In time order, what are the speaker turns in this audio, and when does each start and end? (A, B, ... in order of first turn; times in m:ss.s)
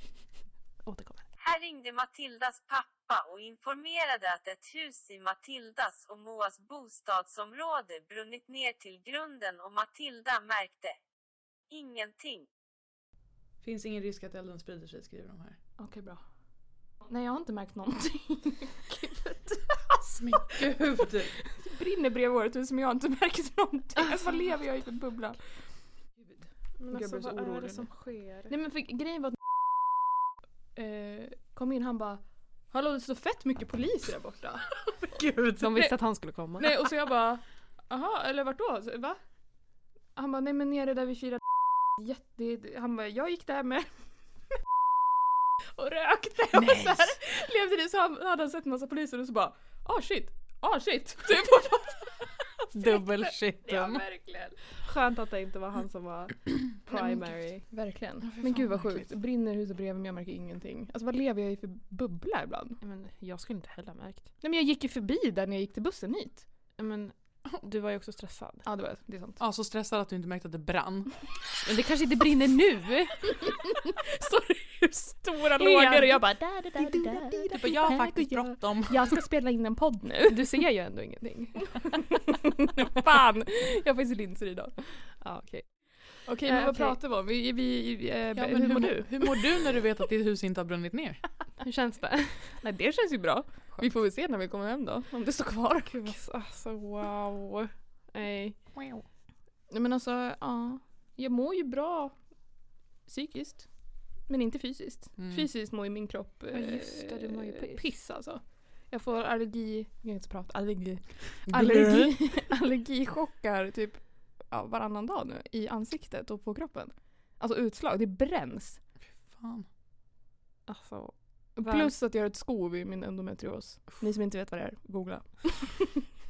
0:00.8-0:01.2 A
0:01.4-0:10.9 B
0:11.7-0:12.5 B
0:13.6-0:15.6 C
0:15.8-0:16.2 D
0:17.0-0:20.6 D
0:20.0-0:21.4 C
0:21.4-0:25.4 D
0:24.0-0:24.3 A
0:26.2-0:27.9 D
0:26.8-0:28.5 A
0:28.5-0:29.8 D
0:30.7-0:34.8 D
0:35.0-0:35.9 C
0:35.6-0:36.8 A
0:36.6-0:39.2 D
0:40.2-0:44.0 D
0:45.8-0:54.6 D
0:46.5-0:47.1 C
0:52.7-0:54.0 C
0:54.7-0:57.6 A
0:56.9-1:02.8 D
0:58.2-0:59.1 C
1:02.8-1:04.3 A
1:04.4-1:06.4 D
1:06.8-1:08.6 A
1:08.6-1:09.4 D
1:09.4-1:11.2 C
1:11.6-1:13.5 A
1:13.4-1:20.6 D
1:15.5-1:17.4 A
1:17.5-1:19.1 C
1:20.3-1:21.9 A
1:21.7-1:24.9 D
1:25.2-1:27.0 A
1:26.2-1:29.7 D
1:28.4-1:31.2 C
1:31.6-1:32.6 A
1:32.6-1:36.2 D
1:35.8-1:38.6 A
1:38.8-1:39.0 C
1:39.7-1:42.2 D
1:43.0-1:43.7 D
1:44.2-1:58.8 D
1:45.2-1:45.5 C
1:46.5-1:47.9 A
1:51.4-1:52.1 C
1:59.2-1:59.7 C
2:00.7-2:01.9 A
2:01.6-2:06.1 D